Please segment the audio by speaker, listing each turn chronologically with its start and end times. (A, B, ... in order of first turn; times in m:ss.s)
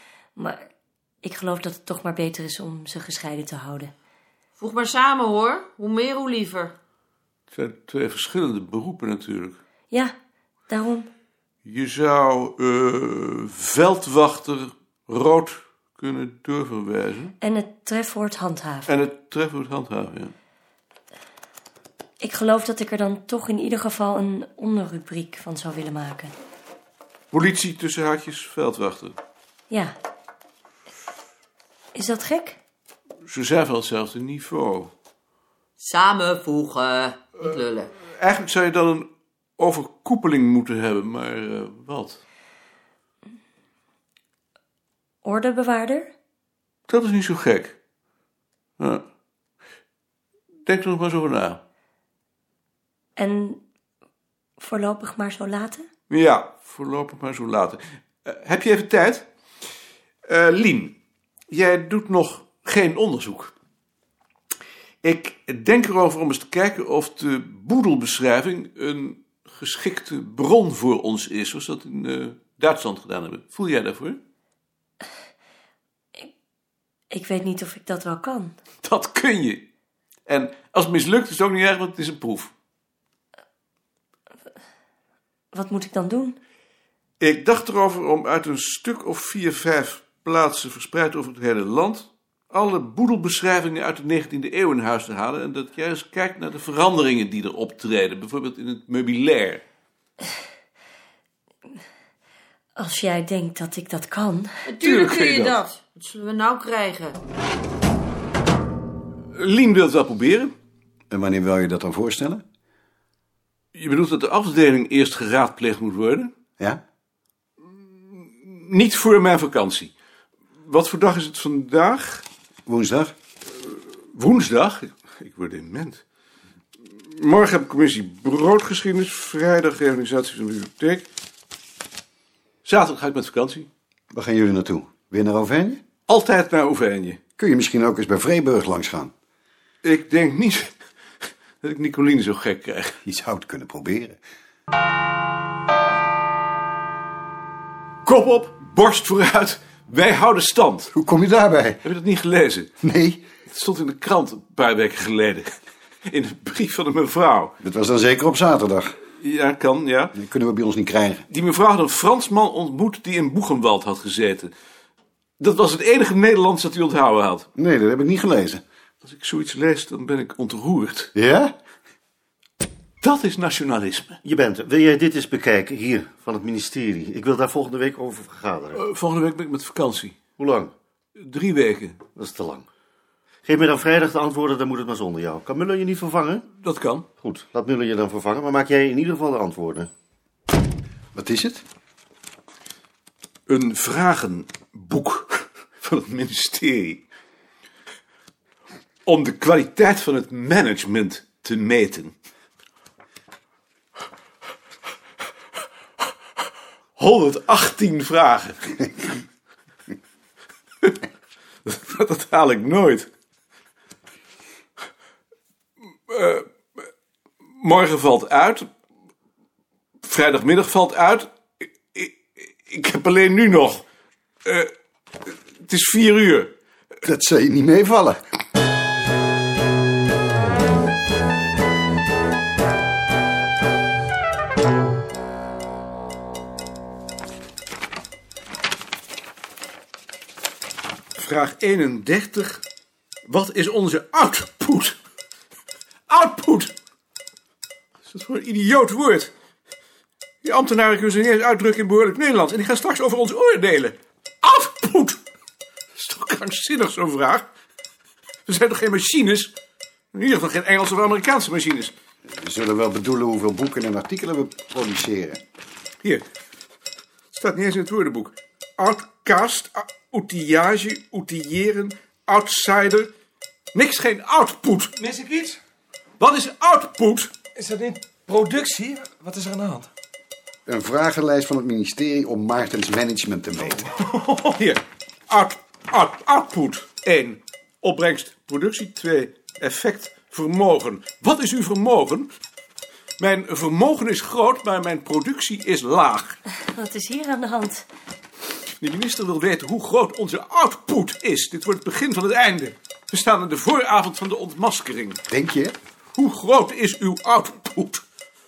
0:00.4-0:00.7 A
0:01.2-0:03.9 A
0:04.6-0:06.7 B
0:07.5-0:09.6 C
0:10.7-0:11.1 A
0:11.6-0:17.3 C
0:17.4-0:18.9 A
0:18.9-0:20.3 C
0:22.2-0:26.3 A
0:27.3-0:29.2 C
0:29.7-0:30.0 A
0:32.0-0:32.6 A
0:33.3-0:34.9 C
0:35.8-0:37.9 B
0:37.4-0:42.2 C
0:45.2-0:46.1 A
0:46.9-0:47.8 C
0:48.8-0:49.0 C
0:50.7-0:51.6 C
0:53.2-0:53.6 A
0:54.6-0:55.9 A
0:56.1-0:59.3 C
1:00.3-1:01.0 C
1:01.5-1:03.5 C
1:05.0-1:14.2 C
1:17.1-1:18.6 A
1:18.8-1:19.7 C
1:20.3-1:22.5 C
1:25.5-1:26.4 A
1:27.2-1:39.6 C
1:42.8-1:44.5 A
1:44.7-1:47.2 B
1:44.8-1:45.6 C
1:49.4-1:50.5 C
1:51.1-1:52.4 D
1:53.7-1:56.3 C
1:58.1-1:59.9 C
2:00.6-2:02.2 C
2:02.7-2:03.1 D
2:03.6-2:06.0 C
2:07.0-2:11.1 C
2:12.6-2:13.7 C
2:14.1-2:15.8 D
2:16.1-2:17.2 C
2:17.4-2:19.1 D
2:19.8-2:20.7 C
2:21.6-2:23.0 C
2:23.0-2:24.2 D
2:28.0-2:30.9 C
2:30.9-2:31.8 D
2:31.8-2:32.7 C
2:32.8-2:33.2 D
2:33.5-2:35.5 C
2:36.1-2:37.6 C
2:37.6-2:39.0 D
2:39.2-2:40.2 C
2:40.1-2:41.2 D
2:41.3-2:44.5 C
2:45.4-2:47.5 C
2:47.6-2:48.6 D
2:49.0-2:51.1 C
2:51.2-2:51.5 D
2:53.0-2:54.2 C
2:54.2-2:58.8 E
2:58.7-3:00.2 C
3:00.4-3:00.7 E
3:01.2-3:02.0 C
3:02.2-3:02.7 E
3:03.4-3:06.4 E
3:06.6-3:07.1 C
3:07.2-3:09.9 E
3:11.2-3:11.6 D
3:13.5-3:17.0 C
3:19.1-3:22.1 C
3:27.0-3:29.1 C
3:31.7-3:33.1 C
3:36.1-3:36.5 C
3:37.6-3:38.7 C
3:40.0-3:41.3 C
3:41.9-3:43.8 C
3:44.4-3:44.7 C
3:45.2-3:46.5 C
3:47.0-3:48.2 D
4:01.2-4:02.6 C
4:03.3-4:05.0 C
4:06.1-4:06.7 C
4:08.1-4:09.3 C
4:10.4-4:15.2 C
4:16.0-4:17.5 C
4:18.5-4:19.5 C
4:20.1-4:21.9 C
4:22.3-4:25.4 D
4:27.3-4:33.1 C
4:33.7-4:35.0 C
4:35.0-4:35.6 F
4:36.2-4:37.3 C
4:37.6-4:39.9 F
4:40.7-4:43.9 D
4:44.3-4:52.3 C
4:53.2-4:56.4 C
4:56.6-4:57.9 A
4:58.8-5:05.2 C
5:05.3-5:05.7 D
5:06.2-5:08.0 C